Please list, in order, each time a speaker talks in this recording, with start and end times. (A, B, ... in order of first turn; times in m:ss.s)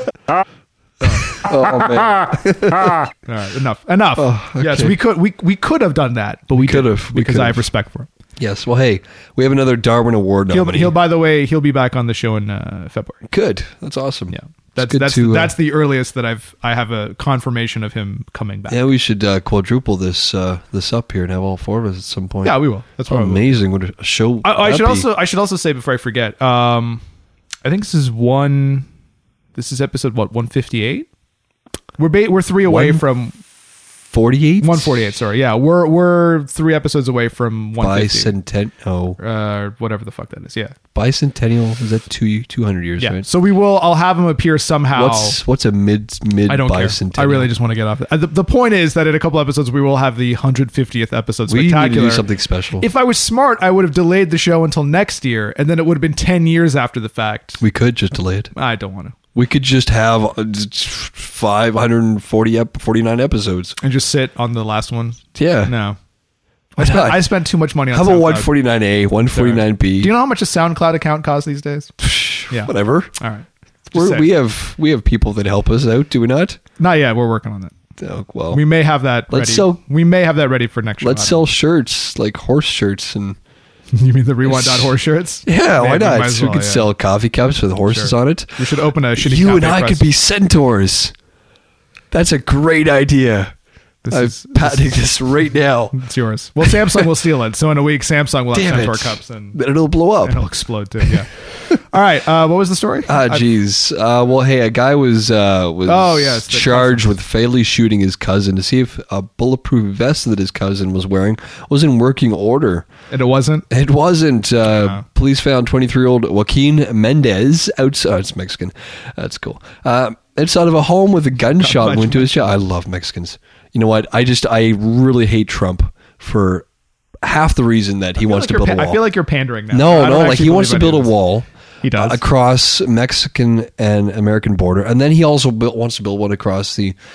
0:01.1-0:02.9 A
0:03.3-0:08.1 B
0:04.2-0:05.0 A
0:06.5-0:07.6 A
0:08.4-0:10.9 A
0:10.5-0:13.2 B
0:13.3-0:15.6 A
0:14.3-0:18.8 B
0:18.7-0:25.1 A
0:22.4-0:23.5 B
0:24.4-0:27.0 B
0:27.6-0:28.9 B
0:29.5-0:31.1 B
0:32.0-0:33.4 B
0:32.6-0:33.0 A
0:34.1-0:34.9 A
0:34.6-0:38.3 B
0:37.8-0:39.2 A
0:39.2-0:40.7 B
0:40.9-0:43.3 A
0:43.0-0:45.4 B
0:44.9-0:47.5 A
0:46.5-0:52.2 B
0:51.5-0:52.9 A
0:52.8-0:57.6 B
0:57.6-0:58.5 A
0:58.5-0:59.2 B
0:59.3-1:03.7 A
1:03.8-1:06.0 B
1:05.3-1:05.7 A
1:06.8-1:08.5 B
1:06.8-1:10.1 A
1:09.3-1:11.9 B
1:12.0-1:13.1 A
1:12.5-1:14.3 B
1:13.9-1:16.6 A
1:16.8-1:17.7 B
1:18.0-1:18.6 A
1:18.5-1:21.4 B
1:19.3-1:19.8 A
1:21.0-1:23.4 A
1:23.9-1:26.9 B
1:24.4-1:31.1 A
1:27.8-1:30.1 B
1:32.1-1:33.5 A
1:34.0-1:35.1 B
1:34.1-1:36.0 A
1:35.9-1:39.6 B
1:36.6-1:37.0 A
1:38.5-1:40.4 A
1:40.2-1:43.4 B
1:43.1-1:52.9 A
1:45.9-1:47.1 B
1:53.1-1:53.7 B
1:53.7-2:06.6 A
1:54.7-1:55.0 B
2:01.6-2:02.5 B
2:07.2-2:09.0 A
2:08.2-2:11.2 B
2:09.7-2:17.0 A
2:11.8-2:12.2 B